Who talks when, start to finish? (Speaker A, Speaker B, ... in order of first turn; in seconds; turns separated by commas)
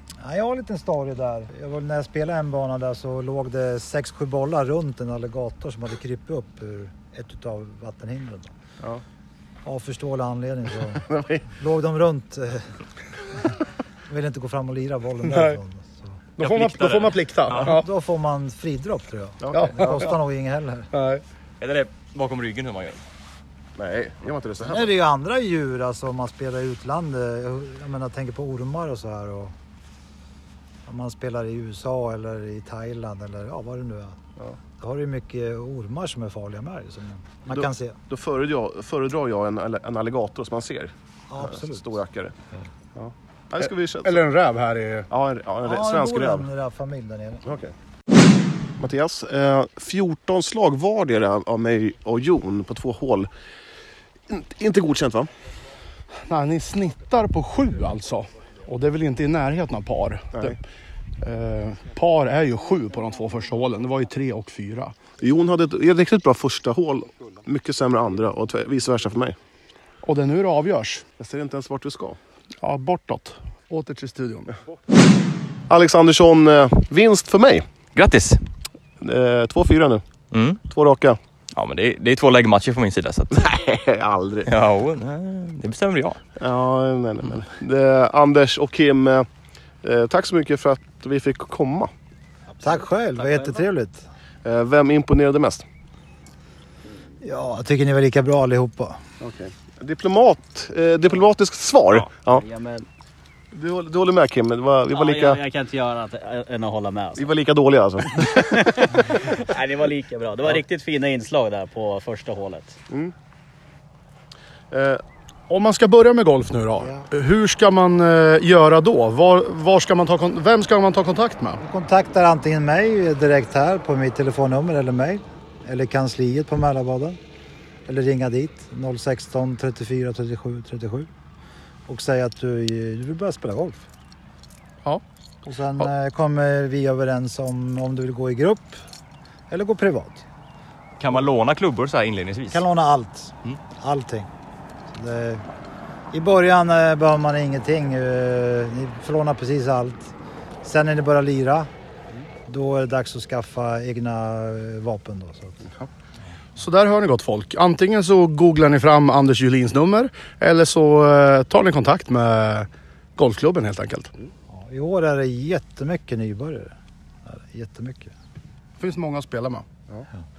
Speaker A: 0.2-8.5, Speaker A: 9.7-12.7, Speaker B: 11.1-11.4, Speaker A: 14.1-16.2, Speaker C: 15.2-15.6, Speaker C: 16.4-17.9, Speaker D: 16.4-17.7, Speaker A: 17.6-20.9, Speaker B: 19.4-20.0, Speaker C: 19.5-20.0, Speaker C: 20.9-21.2, Speaker D: 21.6-23.0, Speaker B: 23.8-24.9, Speaker A: 24.7-29.5, Speaker A: 30.9-34.2, Speaker A: 34.8-38.0, Speaker B: 37.5-42.3, Speaker A: 41.3-42.0, Speaker B: 43.0-44.2, Speaker C: 44.0-45.1, Speaker B: 45.1-46.5, Speaker A: 45.6-47.5, Speaker B: 47.5-47.7, Speaker B: 48.8-53.3, Speaker B: 54.3-55.3, Speaker C: 56.3-60.6, Speaker C: 61.2-65.0, Speaker B: 65.2-69.4, Speaker C: 70.0-71.0, Speaker B: 71.2-72.2, Speaker C: 72.6-74.5, Speaker B: 75.7-77.7, Speaker D: 78.0-78.4, Speaker B: 79.0-80.0, Speaker D: 80.3-80.6, Speaker B: 80.7-81.2, Speaker D: 81.5-83.5, Speaker B: 83.3-84.5, Speaker D: 84.5-86.2, Speaker B: 86.4-89.3, Speaker B: 89.8-91.9, Speaker A: 92.6-94.1, Speaker B: 94.4-95.7, Speaker A: 97.2-99.0, Speaker B: 99.2-102.4, Speaker E: 102.2-102.9, Speaker B: 103.5-105.4, Speaker E: 104.9-107.3, Speaker B: 107.2-108.9, Speaker E: 108.2-112.8, Speaker B: 114.7-115.0, Speaker C: 115.5-121.6, Speaker A: 121.6-127.2, Speaker A: 127.9-131.1, Speaker A: 131.9-133.8, Speaker A: 135.5-138.8, Speaker A: 139.5-140.2, Speaker D: 141.0-142.6, Speaker A: 142.5-144.3, Speaker A: 144.9-145.4, Speaker A: 146.1-150.1, Speaker A: 150.6-151.7, Speaker A: 152.5-155.7, Speaker C: 156.6-164.1, Speaker A: 164.5-166.7, Speaker A: 167.3-168.1, Speaker C: 168.8-169.7